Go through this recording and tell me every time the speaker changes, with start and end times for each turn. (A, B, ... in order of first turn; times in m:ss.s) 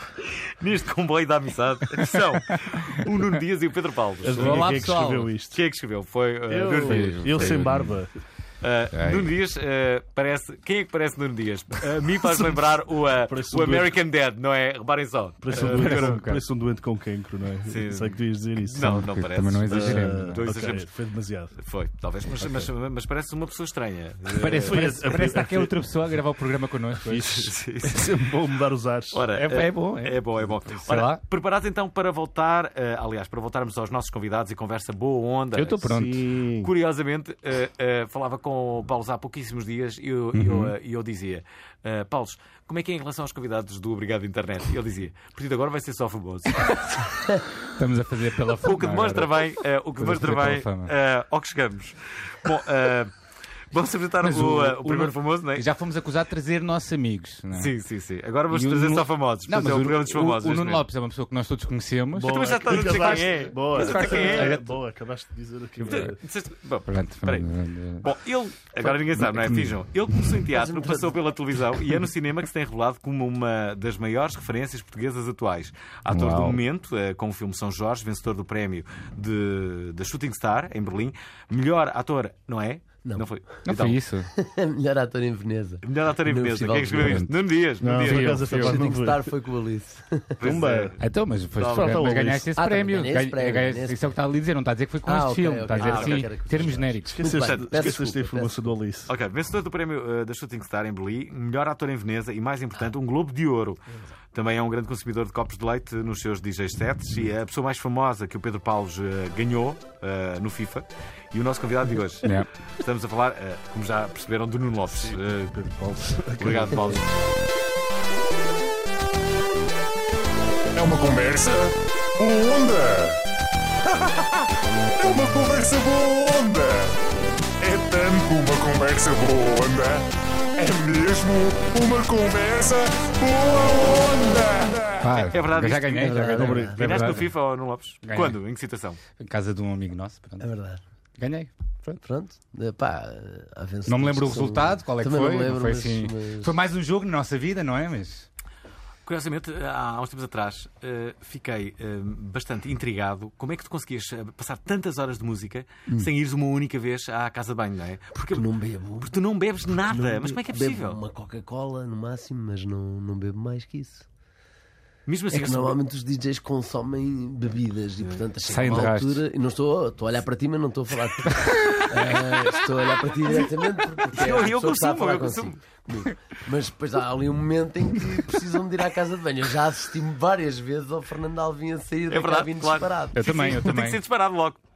0:00.2-0:04.9 A
0:04.2-0:05.6 B
0:04.3-0:05.3 C
0:05.5-0:07.9 A
0:06.5-0:08.1 B
0:06.7-0:08.0 C
0:08.6-0:16.2 A
0:08.9-0:09.3 C
0:12.2-0:12.6 B
0:13.2-0:14.0 B
0:15.4-0:19.1 B
0:15.5-0:16.4 C
0:17.7-0:20.9 A
0:18.8-0:20.4 C
0:19.6-0:21.6 B
0:21.6-0:24.9 A
0:22.4-0:22.7 B
0:24.3-0:27.5 C
0:24.6-0:25.8 B
0:27.0-0:29.2 B
0:27.3-0:28.2 A
0:29.1-0:36.0 A
0:29.3-0:30.2 C
0:30.8-0:31.2 C
0:35.6-0:36.2 C
0:35.9-0:36.7 B
0:36.6-0:47.2 A
0:40.3-0:40.7 C
0:47.6-0:49.4 C
0:48.6-0:53.2 A
0:50.0-0:50.9 C
0:53.7-0:55.7 A
0:54.2-0:57.7 C
0:57.5-1:00.8 A
0:58.5-1:04.8 C
1:02.1-1:06.2 B
1:02.3-1:04.6 A
1:05.8-1:24.0 A
1:05.9-1:06.1 C
1:06.9-1:08.1 C
1:09.2-1:09.7 C
1:10.5-1:11.2 D
1:16.1-1:16.6 C
1:23.6-1:24.3 C
1:24.3-1:27.3 D
1:25.8-1:28.6 A
1:26.9-1:27.3 C
1:27.8-1:29.3 B
1:28.0-1:28.9 C
1:28.4-1:30.4 D
1:30.4-1:31.0 A
1:30.4-1:31.0 B
1:31.0-1:37.4 C
1:31.6-1:32.2 A
1:31.7-1:32.5 B
1:32.6-1:34.1 D
1:35.0-1:38.8 D
1:35.8-1:36.3 A
1:37.1-1:39.2 B
1:37.6-1:38.0 A
1:39.1-1:55.6 A
1:54.9-1:57.0 B
1:56.4-1:57.1 A
2:00.7-2:03.2 E
2:03.9-2:04.4 E
2:05.0-2:07.0 E
2:07.6-2:15.3 E
2:15.0-2:17.3 C
2:15.1-2:19.0 A
2:15.9-2:16.8 D
2:16.4-2:17.2 B
2:18.0-2:18.4 C
2:19.2-2:20.5 C
2:20.4-2:20.8 D
2:21.2-2:22.0 C
2:22.0-2:26.5 D
2:23.9-2:28.3 C
2:29.1-2:38.4 A
2:38.2-2:39.1 D
2:39.0-2:41.0 A
2:39.9-2:44.1 D
2:45.1-2:45.8 A
2:45.3-3:03.2 D
2:48.5-2:49.2 C
2:51.4-2:52.3 C
2:54.1-2:55.8 A
3:02.1-3:04.6 A
3:03.2-3:04.0 C